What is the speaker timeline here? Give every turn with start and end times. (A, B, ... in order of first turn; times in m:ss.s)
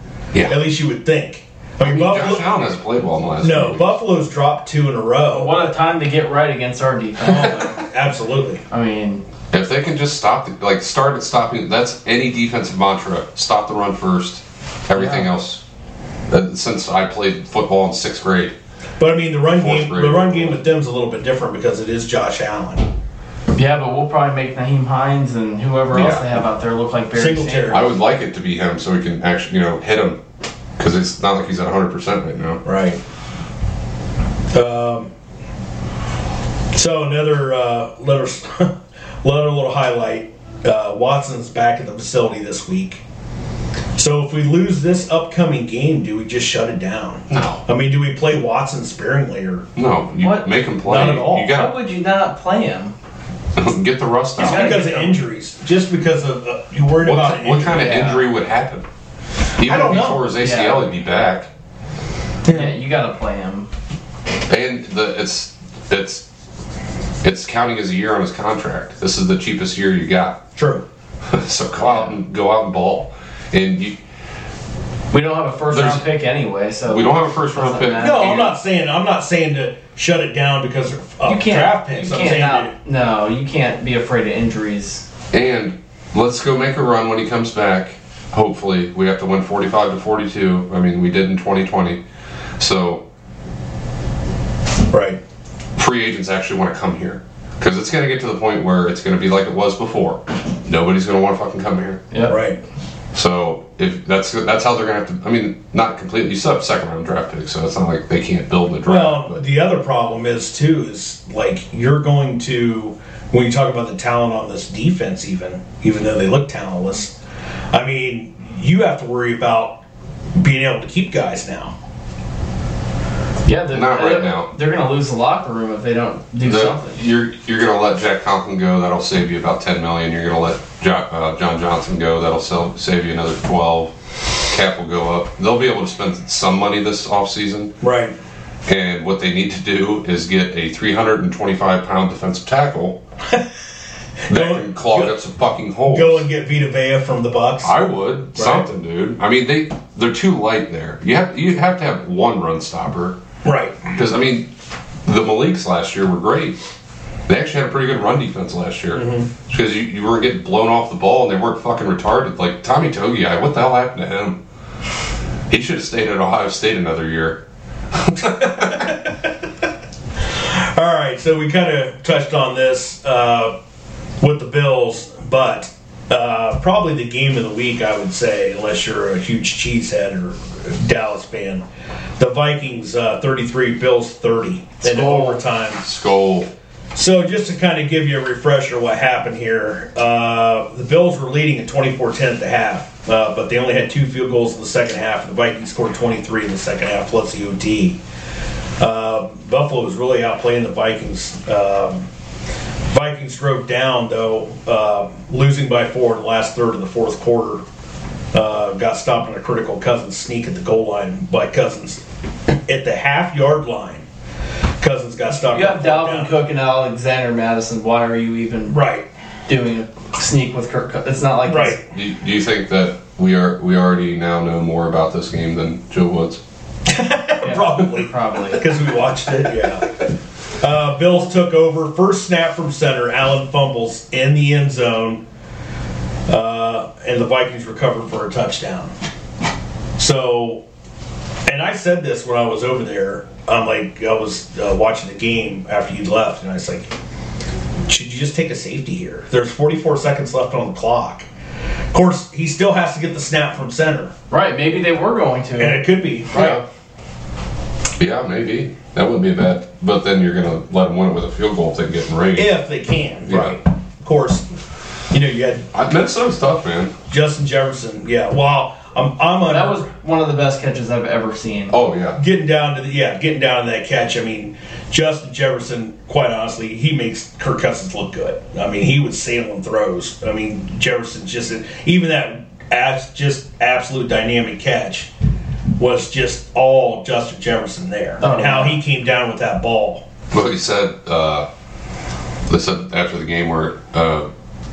0:00.3-0:00.6 A
0:00.4-0:02.5 B
0:01.8-0:04.0 A
0:03.4-0:05.7 B
0:05.3-0:07.8 C
0:07.3-0:08.6 B
0:08.7-0:09.2 C
0:09.5-0:15.6 A
0:14.9-0:15.3 C
0:16.3-0:18.5 A
0:19.0-0:22.9 B
0:19.5-0:20.6 A
0:23.5-0:27.9 C
0:25.9-0:26.3 A
0:27.1-0:27.9 B
0:27.7-0:30.2 A
0:30.8-0:32.6 A
0:32.6-0:33.0 B
0:34.5-0:35.1 B
0:36.7-0:43.0 B
0:44.0-0:49.6 B
0:47.3-0:47.6 A
0:49.8-0:51.7 A
0:50.2-0:52.9 C
0:50.8-0:51.5 B
0:53.6-0:54.8 A
0:54.4-0:55.2 C
0:54.4-0:58.2 B
0:57.0-0:58.8 A
0:57.8-0:58.2 C
0:59.6-1:01.5 A
0:59.6-1:00.2 B
1:00.4-1:00.8 C
1:02.4-1:02.7 B
1:02.5-1:03.7 C
1:04.5-1:06.2 A
1:07.2-1:10.4 A
1:10.6-1:10.8 B
1:11.3-1:14.0 A
1:11.8-1:12.1 C
1:15.1-1:18.5 C
1:15.7-1:16.0 A
1:16.9-1:18.5 A
1:18.0-1:22.7 B
1:21.2-1:25.0 C
1:25.3-1:32.0 A
1:32.6-1:33.0 A
1:34.9-1:35.2 B
1:35.8-1:42.0 A
1:42.1-1:42.4 C
1:42.3-1:42.6 B
1:43.1-1:49.4 A
1:48.8-1:57.1 B
1:57.7-1:59.8 B
2:00.4-2:01.7 B
2:03.4-2:07.0 C
2:03.7-2:04.5 A
2:06.4-2:13.9 A
2:14.5-2:17.7 A
2:17.8-2:18.1 B
2:18.6-2:23.0 A
2:24.3-2:25.1 B
2:24.3-2:26.2 A
2:25.9-2:27.7 B
2:27.6-2:33.2 A
2:28.3-2:28.7 B
2:33.4-2:33.9 B
2:33.9-2:34.5 A
2:35.0-2:36.6 A
2:37.3-2:44.4 A
2:38.9-2:39.3 B
2:45.5-2:47.4 A
2:47.9-2:48.9 A
2:48.2-2:49.3 B
2:50.4-2:53.5 B
2:54.2-3:01.6 B
3:02.2-3:05.8 B
3:04.8-3:05.3 C
3:05.8-3:06.5 A
3:06.9-3:18.0 B
3:18.8-3:22.1 B
3:22.9-3:27.6 B
3:28.3-3:32.0 B
3:32.6-3:34.0 B
3:34.8-3:36.3 B
3:35.5-3:38.8 C
3:38.7-3:39.0 B
3:39.5-3:41.8 C
3:41.4-3:41.8 B
3:41.9-3:46.4 A
3:46.9-3:50.0 B
3:47.4-3:48.6 C
3:50.6-3:55.2 B
3:56.3-3:58.9 B
4:00.0-4:00.6 B
4:01.4-4:06.9 B
4:07.9-4:11.3 B
4:11.9-4:14.1 B
4:14.3-4:16.6 C
4:15.6-4:16.6 B
4:18.0-4:22.5 A
4:22.3-4:24.5 B
4:23.3-4:23.5 A
4:25.1-4:25.6 B
4:25.7-4:26.9 A
4:27.1-4:29.8 B
4:29.4-4:31.7 C
4:31.7-4:32.2 A
4:32.2-4:45.1 B
4:45.8-4:50.0 B
4:48.2-4:48.8 C
4:50.3-4:51.5 A
4:52.5-4:54.3 A